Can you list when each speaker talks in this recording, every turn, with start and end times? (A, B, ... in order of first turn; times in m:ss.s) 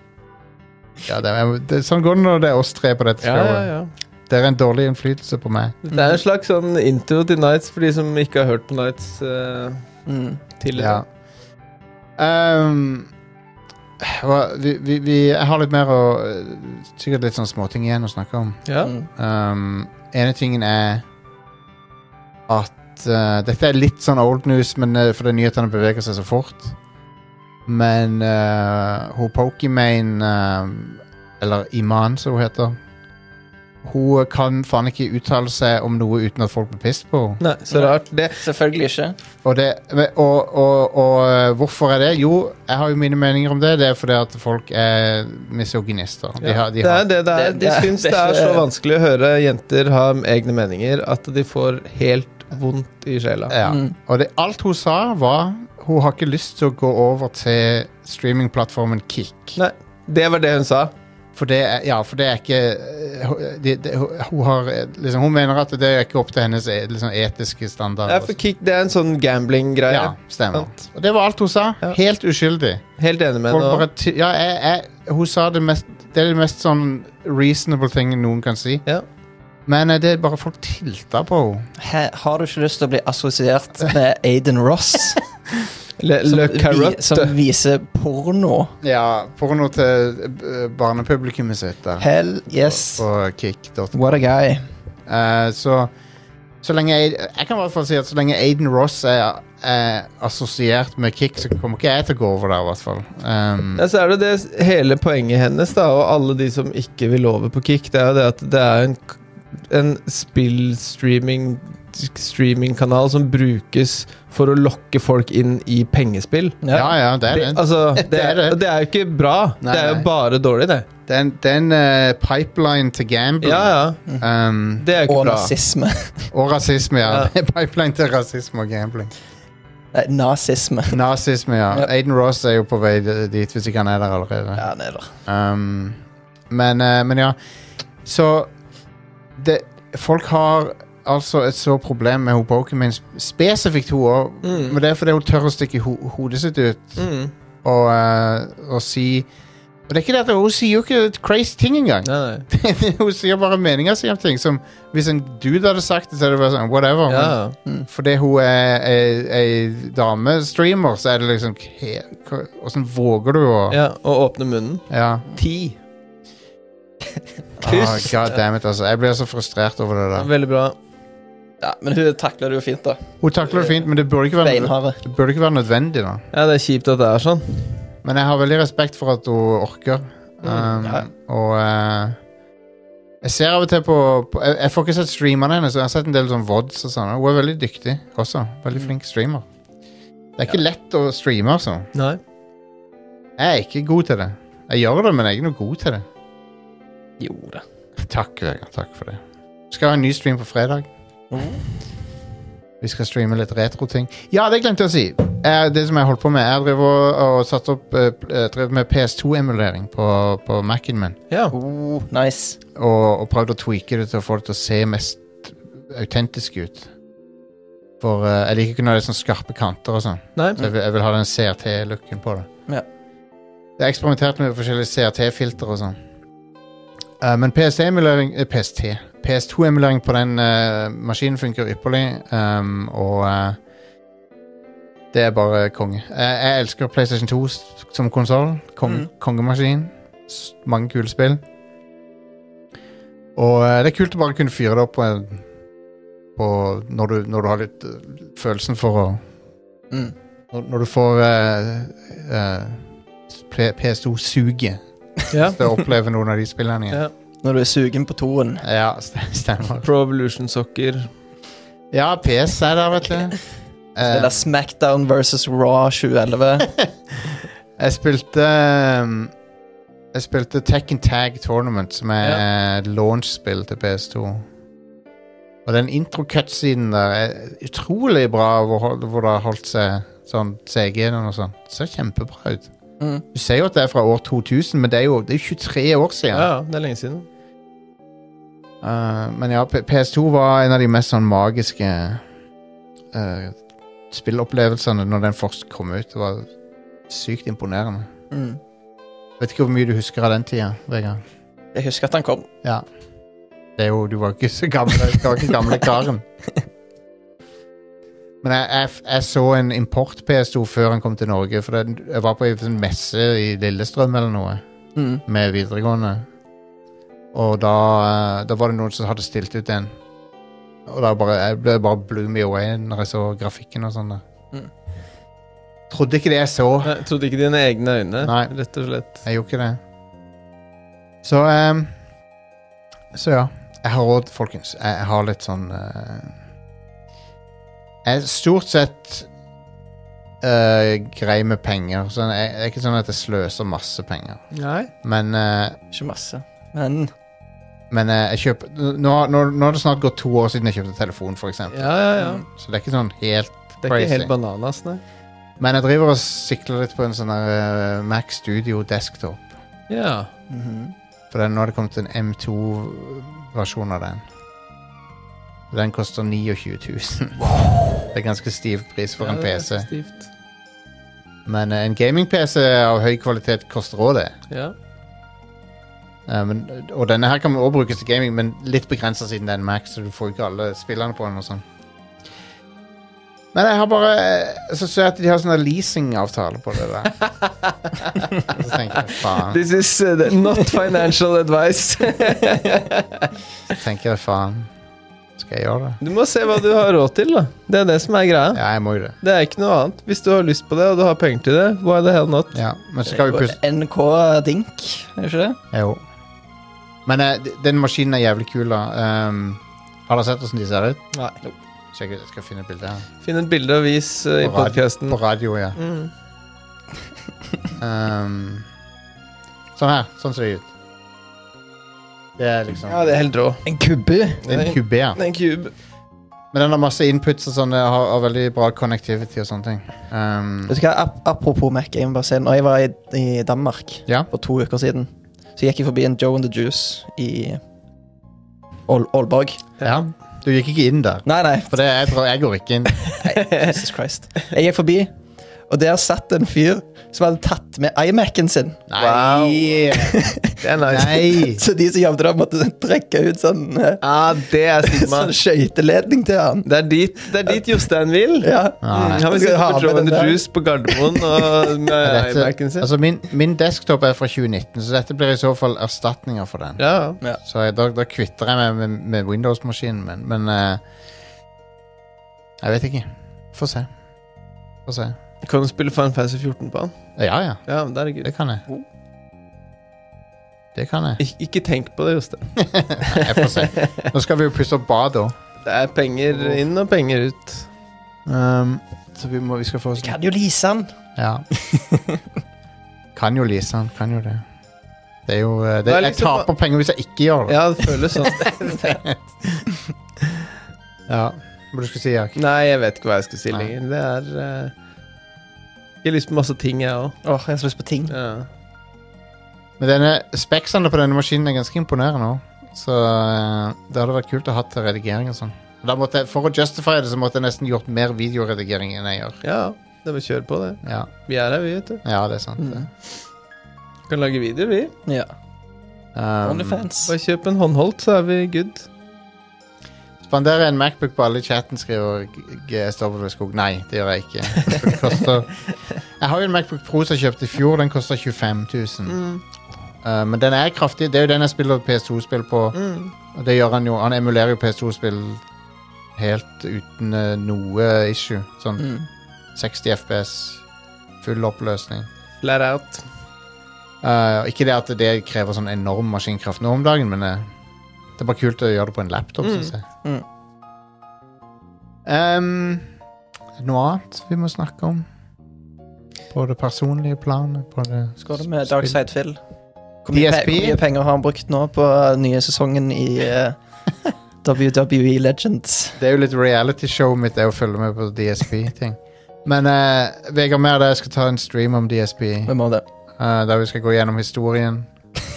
0:01.0-0:03.7 A
0:03.2-0:03.9 B
0:04.3-0:05.8 A
0:05.9-0:09.8 B
0:05.9-0:06.2 C
0:10.1-0:10.4 C
0:10.6-0:11.0 B
0:10.8-0:11.0 A
0:12.2-0:13.1 A
0:14.0-0:18.6 A
0:18.7-0:18.9 B
0:18.8-0:19.1 C
0:19.2-0:21.0 A
0:22.5-0:26.8 A
0:27.7-0:32.8 A
0:33.8-0:37.4 A
0:37.4-0:38.4 B
0:37.7-0:39.2 C
0:39.4-0:47.1 A
0:46.4-0:53.5 B
0:47.3-0:48.7 C
0:53.5-0:59.6 A
0:53.6-0:53.9 C
0:59.6-1:00.9 B
1:01.4-1:08.4 A
1:08.1-1:10.7 B
1:09.9-1:12.8 A
1:13.0-1:13.9 B
1:13.5-1:18.8 A
1:19.7-1:21.7 A
1:21.8-1:25.2 C
1:26.0-1:27.4 B
1:26.3-1:28.7 C
1:28.8-1:34.2 A
1:32.0-1:33.1 C
1:33.9-1:34.6 C
1:35.1-1:35.9 A
1:36.6-1:43.8 A
1:43.8-1:49.2 B
1:49.7-1:56.7 B
1:56.6-1:57.0 C
1:56.7-1:58.6 A
1:57.3-2:00.9 B
1:59.6-2:00.1 A
2:01.1-2:04.9 A
2:03.4-2:04.0 B
2:04.8-2:05.6 B
2:05.0-2:06.3 C
2:06.3-2:09.1 A
2:09.9-2:11.0 C
2:10.9-2:14.7 A
2:14.6-2:15.1 C
2:15.3-2:16.0 A
2:16.5-2:17.4 A
2:18.0-2:18.5 A
2:19.4-2:27.0 A
2:24.4-2:24.8 B
2:27.0-2:27.3 B
2:27.6-2:29.3 A
2:29.9-2:43.8 A
2:32.0-2:32.5 B
2:37.1-2:37.6 B
2:43.7-2:45.8 B
2:44.9-2:45.2 A
2:47.6-2:50.3 A
2:47.6-2:48.4 B
2:50.2-2:50.8 B
2:51.6-2:53.8 C
2:53.2-2:56.2 A
2:54.4-2:55.0 C
2:56.3-2:57.7 B
2:58.0-3:02.2 A
3:00.4-3:00.8 B
3:03.2-3:09.5 A
3:10.4-3:11.9 A
3:11.9-3:12.2 B
3:13.4-3:16.0 A
3:17.2-3:17.6 C
3:18.0-3:20.9 A
3:21.3-3:21.6 C
3:22.8-3:31.2 A
3:31.5-3:32.6 C
3:32.8-3:36.9 A
3:38.0-3:42.5 A
3:40.4-3:40.7 B
3:43.8-3:46.0 A
3:47.2-3:53.6 A
3:55.1-4:01.4 A
4:03.4-4:05.4 A
4:06.4-4:09.2 A
4:10.5-4:17.0 A
4:15.3-4:15.6 B
4:17.4-4:18.6 C
4:18.6-4:19.9 A
4:19.8-4:21.1 B
4:21.9-4:23.4 A
4:24.0-4:24.3 A
4:24.0-4:26.7 C
4:27.8-4:29.3 A
4:30.1-4:34.5 A
4:35.7-4:42.7 A
4:43.3-4:46.5 A
4:46.3-4:47.3 B
4:48.8-4:52.2 A
4:53.1-4:53.6 A
4:54.1-4:56.5 A
4:57.1-4:58.1 A
4:58.3-4:58.6 C
4:59.4-5:01.2 A
5:01.7-5:02.5 C
5:03.8-5:06.2 A
5:08.4-5:14.6 A
5:15.0-5:15.2 C
5:15.3-5:16.3 A
5:17.3-5:19.9 A
5:20.9-5:24.2 A
5:25.9-5:26.9 A
5:26.8-5:29.2 B
5:28.2-5:29.8 A
5:31.2-5:31.9 A
5:33.1-5:36.3 A
5:38.0-5:39.3 A
5:40.4-5:44.4 A
5:44.5-5:44.9 B
5:45.0-5:45.8 A
5:45.9-5:47.1 C
5:47.9-5:54.3 A
5:51.7-5:52.4 B
5:52.2-5:52.4 C
5:53.8-5:55.0 B
5:55.6-5:59.5 A
5:59.9-6:00.3 B
6:00.5-6:00.9 C
6:01.3-6:04.2 A
6:05.7-6:09.9 A
6:09.2-6:10.3 B
6:11.5-6:14.4 A
6:16.3-6:21.6 A
6:23.5-6:27.1 A
6:27.2-6:27.5 B
6:28.4-6:29.6 A
6:29.3-6:33.3 B
6:33.7-6:34.7 A
6:35.4-6:36.0 A
6:36.0-6:38.6 B
6:38.5-6:39.2 A
6:39.2-6:42.6 B
6:42.5-6:43.6 A
6:43.0-6:45.6 C
6:45.7-6:46.0 A
6:47.1-6:51.1 A
6:51.9-6:53.1 A
6:53.2-6:55.2 B
6:54.4-6:55.8 A
6:55.8-6:56.1 B
6:57.8-6:58.7 A
6:59.8-7:00.7 A
7:02.4-7:03.1 A
7:02.8-7:03.7 B
7:03.7-7:04.4 C
7:04.4-7:05.7 B
7:04.5-7:05.2 A
7:06.5-7:10.7 A
7:10.7-7:17.6 C
7:18.9-7:19.6 C
7:19.8-7:23.0 A
7:21.2-7:21.8 C
7:23.2-7:25.1 C
7:23.4-7:23.8 B
7:25.7-7:29.0 C
7:28.9-7:30.2 A
7:29.0-7:29.8 B
7:29.9-7:34.0 C
7:30.6-7:31.3 B
7:30.9-7:31.6 A
7:34.0-7:35.3 B
7:34.8-7:36.7 C
7:36.6-7:42.9 B
7:38.4-7:41.5 C
7:38.8-7:39.3 A
7:42.0-7:50.8 A
7:46.8-7:47.2 B
7:52.6-7:53.9 A
7:54.9-7:55.2 A
7:55.4-7:57.1 B
7:57.2-7:58.6 A
7:57.7-7:58.3 B
8:00.8-8:01.2 A
8:01.2-8:03.9 B
8:02.6-8:05.4 A
8:05.6-8:07.7 B
8:06.3-8:06.6 A
8:08.3-8:10.2 A
8:10.0-8:10.9 C
8:11.2-8:11.4 A
8:11.6-8:12.1 C
8:13.2-8:14.4 A
8:15.3-8:17.9 A
8:15.8-8:16.5 B
8:17.5-8:19.0 B
8:18.9-8:19.2 A
8:21.1-8:22.4 A
8:22.4-8:24.7 B
8:26.0-8:27.2 B
8:27.2-8:28.1 C
8:28.1-8:28.5 B
8:29.8-8:39.4 A
8:39.4-8:42.0 B
8:40.8-8:41.1 A
8:42.0-8:42.9 A
8:42.6-8:42.9 C
8:44.1-8:44.9 B
8:45.1-8:45.3 C
8:46.2-8:46.9 A
8:46.4-8:47.1 C
8:47.1-8:48.9 B
8:50.2-8:55.6 A
8:56.2-8:59.2 A
8:59.1-8:59.4 B
9:00.0-9:02.8 A
9:02.7-9:03.1 B
9:03.3-9:05.4 A
9:06.2-9:09.0 A
9:08.8-9:09.1 C
9:09.6-9:10.6 A
9:11.2-9:12.1 A
9:12.4-9:13.0 B
9:14.0-9:17.5 A
9:18.2-9:19.8 A
9:19.4-9:19.7 B
9:22.1-9:22.9 A
9:23.6-9:25.1 A
9:26.3-9:29.0 A
9:28.2-9:29.4 C
9:30.0-9:36.0 C
9:30.1-9:30.8 A
9:36.0-9:42.5 A
9:42.5-9:42.8 C
9:43.2-9:44.9 A